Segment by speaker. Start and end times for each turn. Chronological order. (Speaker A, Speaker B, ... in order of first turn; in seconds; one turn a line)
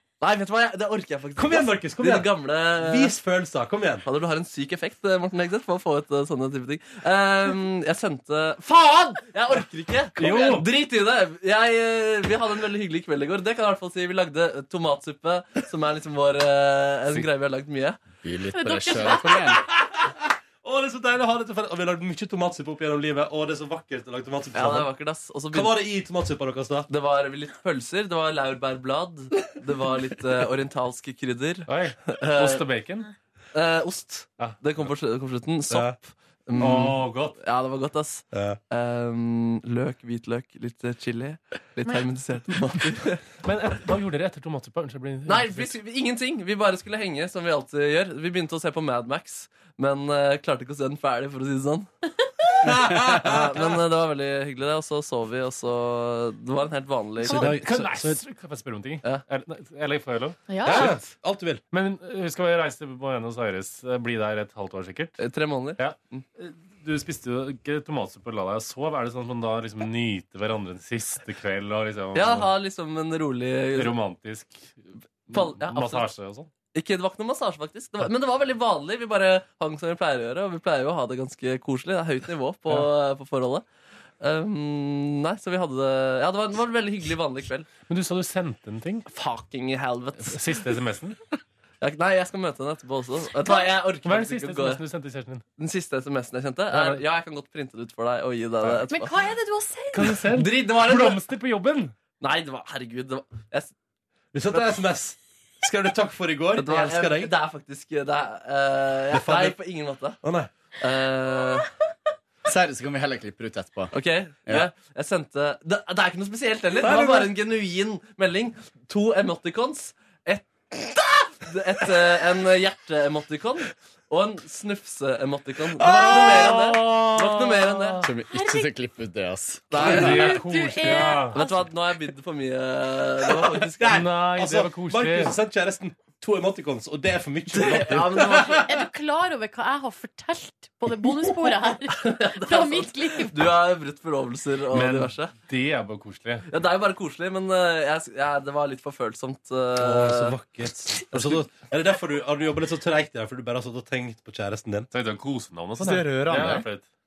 Speaker A: 0.2-3.1
Speaker B: 1.4-4.0
Speaker A: 4.0-18.0
Speaker C: 10.2-10.6
Speaker D: 18.2-19.6
Speaker E: 18.5-19.5
Speaker B: 19.7-24.9
Speaker A: 24.5-25.8
Speaker B: 25.5-26.9
Speaker A: 26.9-32.6
Speaker C: 31.7-33.1
Speaker A: 33.5-43.2
Speaker B: 35.7-36.0
Speaker C: 36.6-37.4
Speaker B: 38.3-38.6
Speaker C: 43.4-45.8
Speaker A: 45.3-51.9
Speaker B: 52.6-53.8
Speaker A: 53.1-57.5
Speaker C: 57.2-61.1
Speaker B: 57.3-58.2
Speaker E: 60.5-60.9
Speaker B: 60.6-61.6
Speaker C: 61.7-65.2
Speaker A: 65.2-66.2
Speaker C: 65.8-72.5
Speaker A: 72.1-74.0
Speaker C: 73.8-76.5
Speaker A: 75.3-76.1
Speaker A: 76.7-83.6
Speaker A: 84.2-87.7
Speaker C: 87.8-89.1
Speaker A: 89.1-90.7
Speaker C: 90.2-91.2
Speaker A: 91.8-94.8
Speaker C: 94.0-95.5
Speaker A: 95.6-99.1
Speaker C: 96.7-97.0
Speaker E: 98.9-100.2
Speaker C: 99.9-102.0
Speaker A: 100.3-101.2
Speaker A: 102.2-103.7
Speaker B: 104.3-107.3
Speaker A: 106.6-110.2
Speaker B: 109.1-109.6
Speaker B: 110.2-110.5
Speaker A: 110.8-111.7
Speaker D: 112.5-113.9
Speaker A: 113.9-128.1
Speaker B: 116.8-117.3
Speaker B: 125.8-127.0
Speaker C: 127.0-128.1
Speaker D: 128.0-129.7
Speaker E: 128.3-128.7
Speaker A: 129.7-130.5
Speaker C: 129.7-131.4
Speaker E: 130.0-131.7
Speaker A: 131.3-134.0
Speaker B: 133.6-138.7
Speaker C: 133.9-135.3
Speaker A: 137.5-138.7
Speaker E: 138.6-143.5
Speaker A: 142.0-145.3
Speaker C: 144.7-146.5
Speaker A: 146.5-150.3
Speaker B: 149.8-154.9
Speaker C: 154.9-156.8
Speaker D: 155.8-156.7